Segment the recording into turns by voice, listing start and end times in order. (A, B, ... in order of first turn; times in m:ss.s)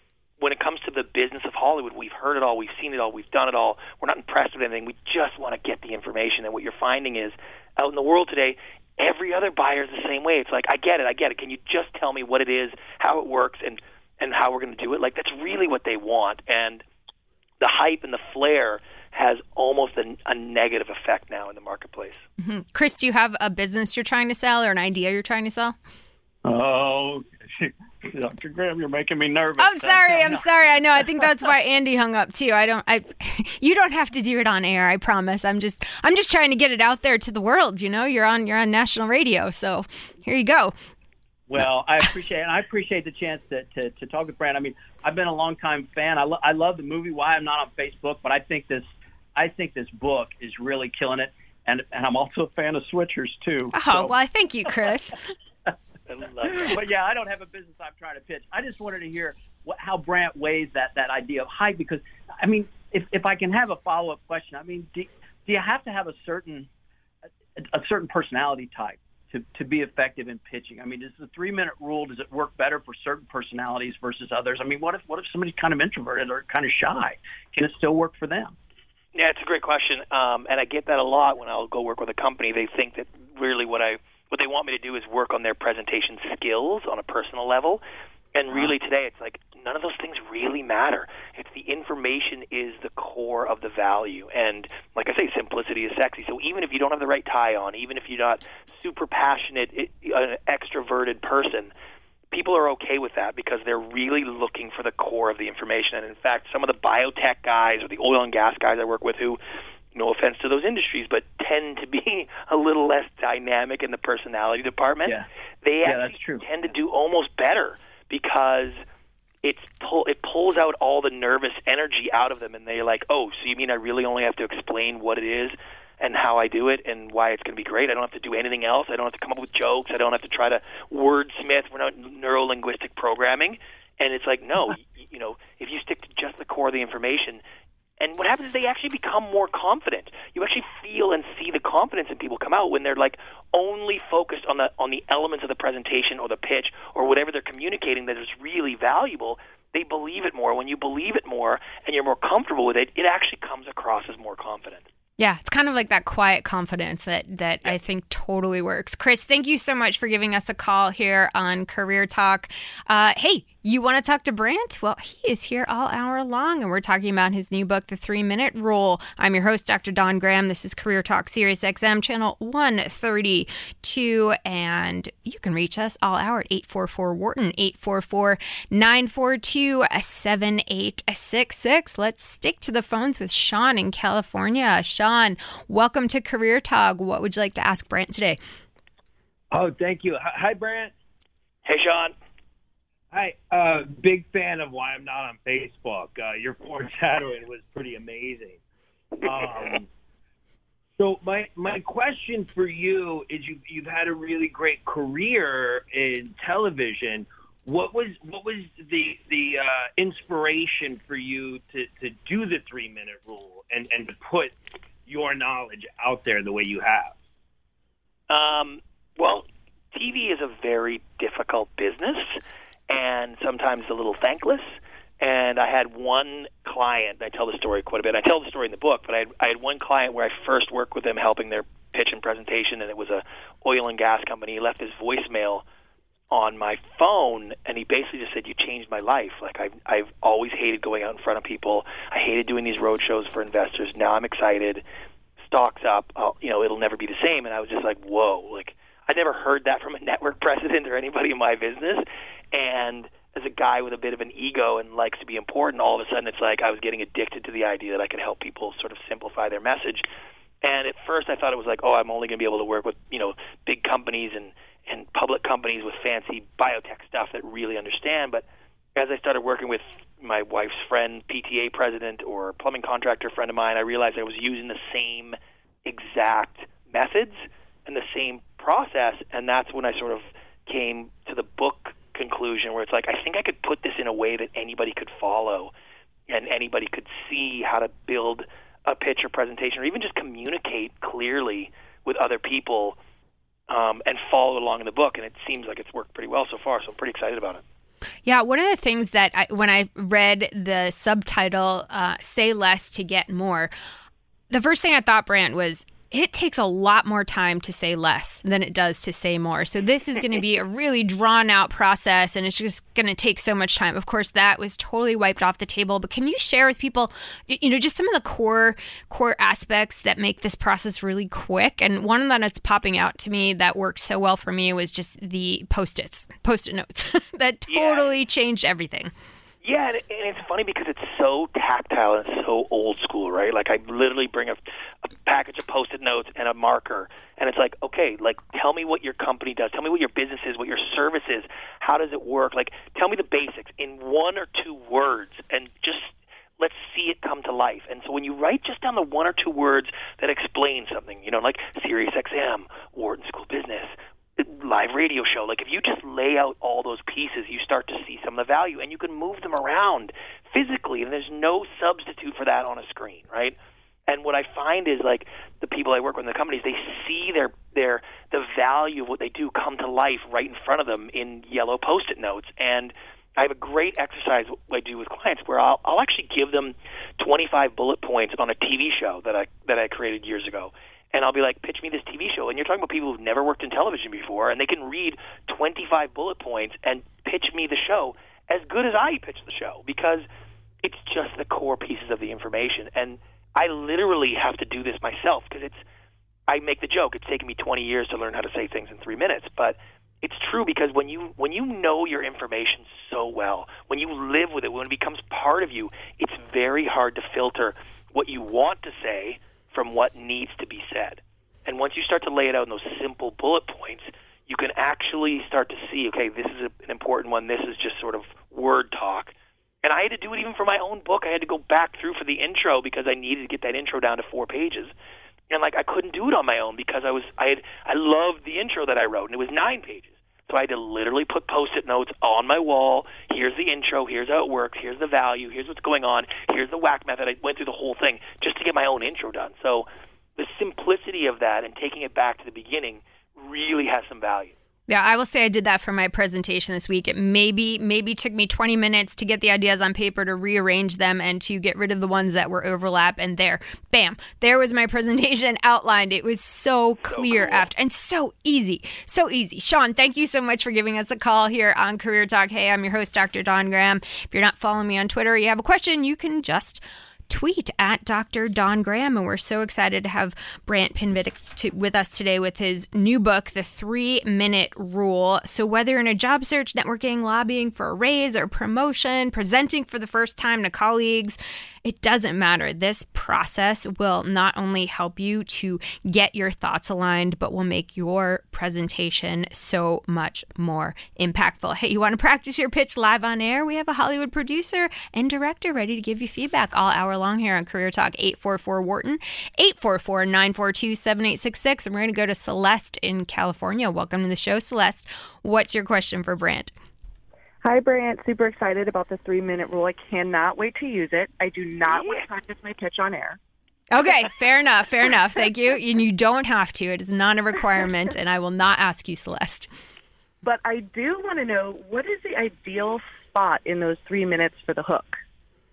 0:00.4-0:16.8 A
0:17.6-0:22.2 A
0:22.4-0:25.8 B
0:26.4-0:30.5 C
0:29.6-0:40.8 B
0:41.5-0:54.1 C
0:53.7-0:55.2 B
0:56.1-0:56.8 A
0:56.5-1:06.7 C
1:07.6-1:18.6 C
1:19.2-1:27.8 A
1:28.4-1:41.7 A
1:42.3-1:49.4 A
1:49.9-1:58.8 A
1:55.8-1:56.4 C
1:59.4-2:17.4 A
2:18.0-2:34.9 A
2:35.2-3:08.4 B
3:09.5-3:10.9 D
3:11.6-3:12.2 A
3:13.1-3:18.6 D
3:19.2-3:19.9 D
3:21.0-3:37.2 D
3:38.3-3:55.6 A
3:56.3-4:04.8 A
4:05.4-4:20.1 A
4:20.6-4:28.4 A
4:29.0-4:45.7 A
4:46.3-4:53.0 A
4:53.7-4:57.6 A
4:58.2-5:03.7 B
5:04.5-5:29.1 B
5:27.7-5:28.1 A
5:29.6-6:03.6 A
6:04.1-6:30.2 A
6:30.8-6:35.8 A
6:36.5-7:04.9 A
7:05.5-7:24.6 A
7:24.9-8:26.7 B
7:37.0-7:37.7 A
8:27.6-8:33.4 E
8:31.9-8:32.2 A
8:33.9-8:39.7 B
8:40.4-8:45.2 E